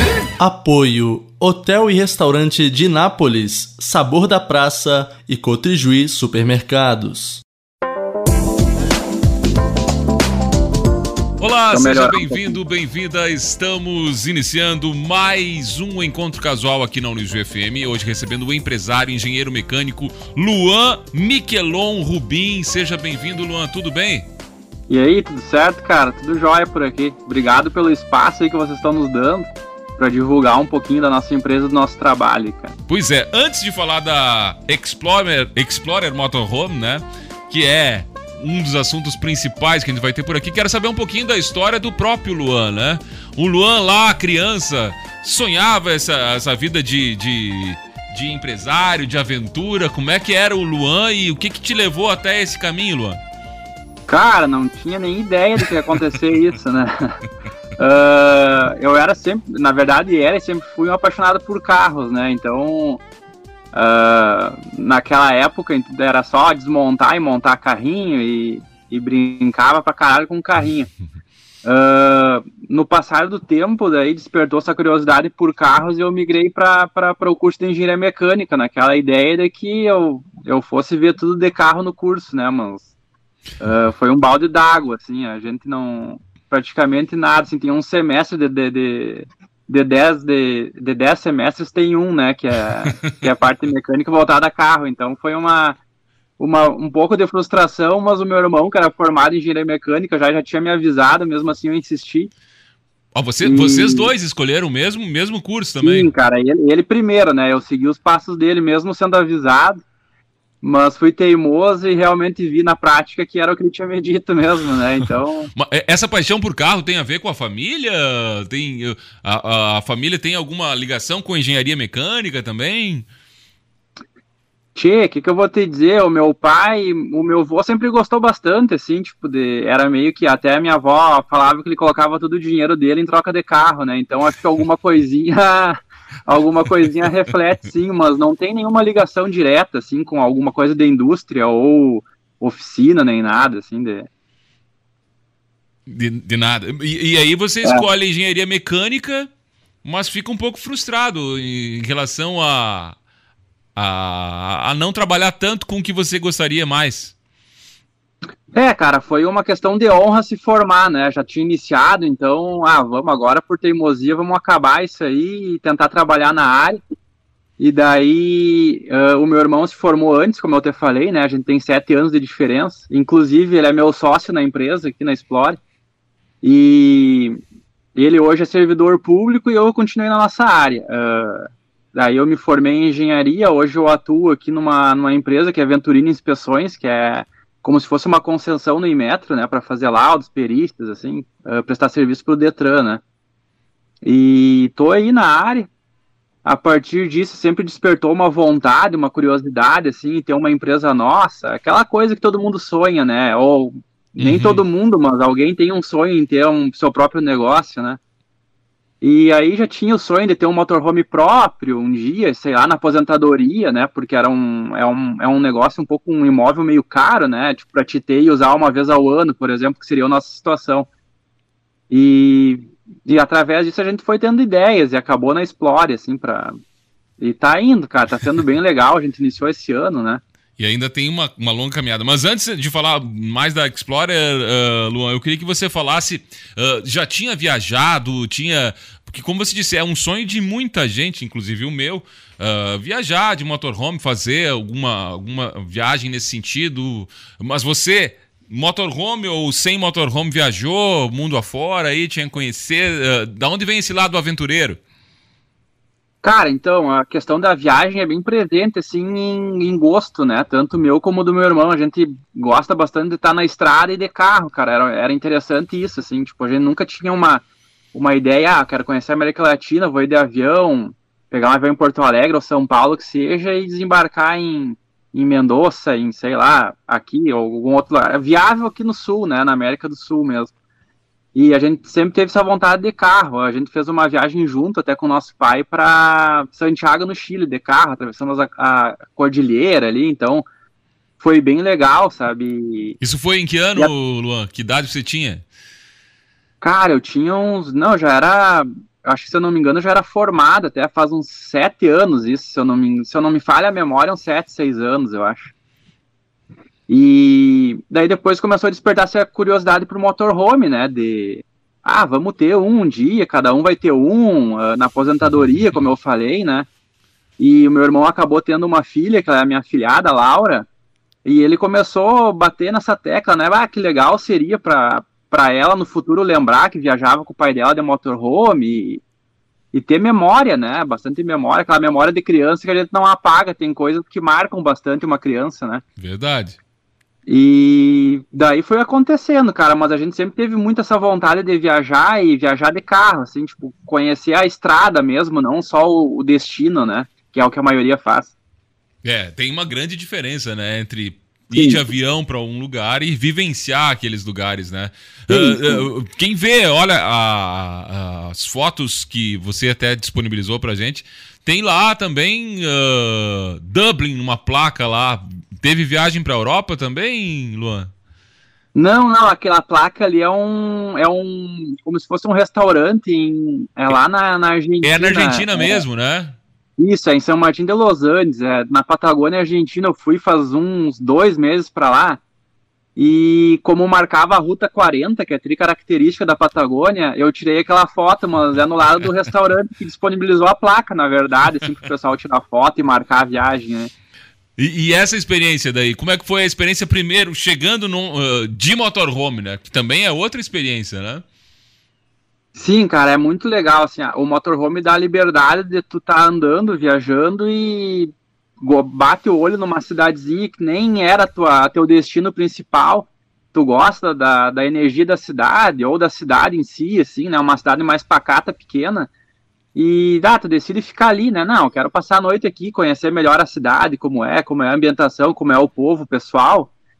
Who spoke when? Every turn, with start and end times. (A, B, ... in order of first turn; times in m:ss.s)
0:00.4-0:07.4 A
0:11.4-0:24.3 B
0:11.7-0:12.6 C
0:24.9-0:32.7 C
0:32.9-0:53.2 B
0:54.1-0:57.2 C
0:57.8-1:03.0 C
1:03.7-1:10.9 C
1:11.6-1:22.9 C
1:23.6-1:35.8 C
1:36.4-1:42.3 C
1:43.1-1:46.1 B
1:43.4-1:44.1 C
1:45.8-1:49.8 C
1:50.6-1:55.5 C
1:55.5-2:03.1 B
2:04.7-2:24.1 C
2:25.8-2:29.3 B
2:29.8-2:32.9 B
2:33.8-2:37.1 B
2:38.5-2:46.8 C
2:47.6-2:55.6 C
2:56.4-2:57.4 C
2:57.9-3:13.0 C
3:14.0-3:15.7 C
3:16.4-3:28.0 C
3:24.2-3:24.6 B
3:29.0-3:40.9 C
3:41.9-3:46.5 C
3:47.2-3:50.2 C
3:50.6-4:14.8 B
4:16.2-4:40.5 C
4:41.3-4:50.4 C
4:51.2-4:53.0 C
4:53.0-4:55.4 B
4:56.6-5:05.5 C
5:06.9-5:16.7 C
5:17.4-5:20.7 C
5:21.2-5:29.0 C
5:29.7-5:35.8 C
5:36.0-5:36.6 B
5:37.3-5:48.3 C
5:49.0-6:07.9 B
5:51.5-5:51.8 C
5:55.3-5:55.9 C
6:08.7-6:15.8 C
6:14.8-6:16.4 B
6:16.8-6:22.2 C
6:23.0-6:33.9 C
6:34.6-6:41.2 B
6:42.5-6:48.1 C
6:48.6-6:59.1 C
6:59.7-7:06.7 C